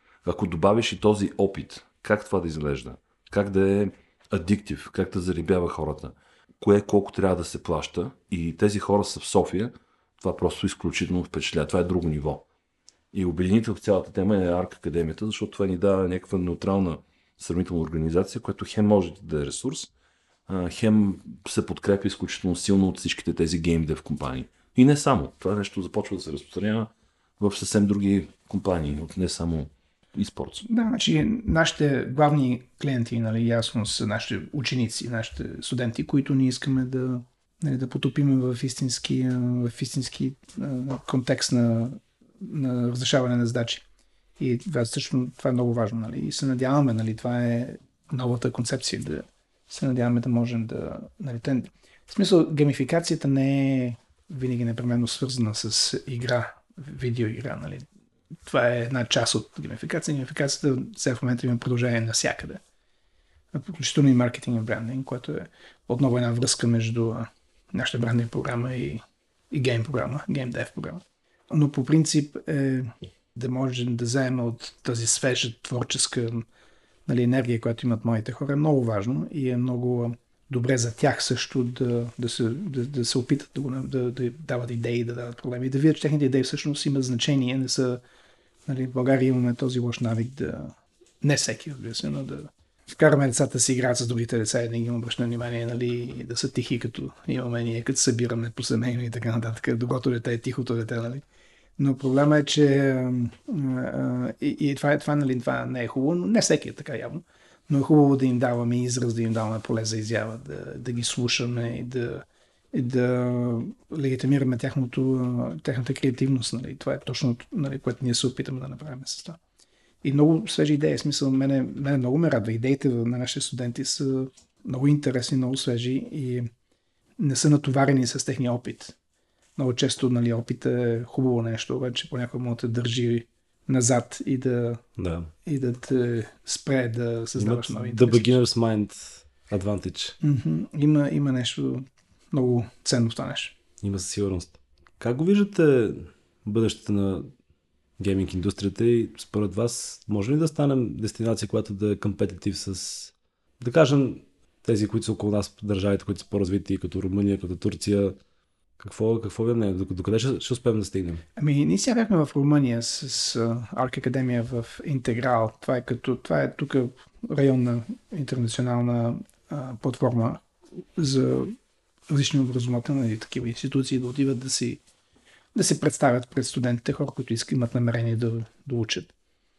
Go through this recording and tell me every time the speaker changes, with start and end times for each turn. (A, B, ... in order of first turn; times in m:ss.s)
0:00.2-0:12.4 A
0:13.1-0:19.9 A
0:20.5-0:30.6 A
0:30.6-0:43.8 B
0:44.4-0:57.9 B
0:58.4-1:02.6 B
1:03.5-1:16.4 B
1:17.1-1:28.0 B
1:28.7-1:41.2 B
1:41.8-1:59.4 B
2:00.0-2:06.5 B
2:07.2-2:08.9 B
2:09.6-2:14.8 B
2:15.0-2:15.3 C
2:15.4-2:18.4 B
2:17.4-2:20.2 C
2:20.2-2:23.6 B
2:23.8-2:27.3 C
2:28.0-2:38.2 C
2:38.8-2:41.2 C
2:41.4-2:50.4 B
2:51.0-2:51.6 B
2:52.1-2:54.8 B
2:55.6-2:59.1 B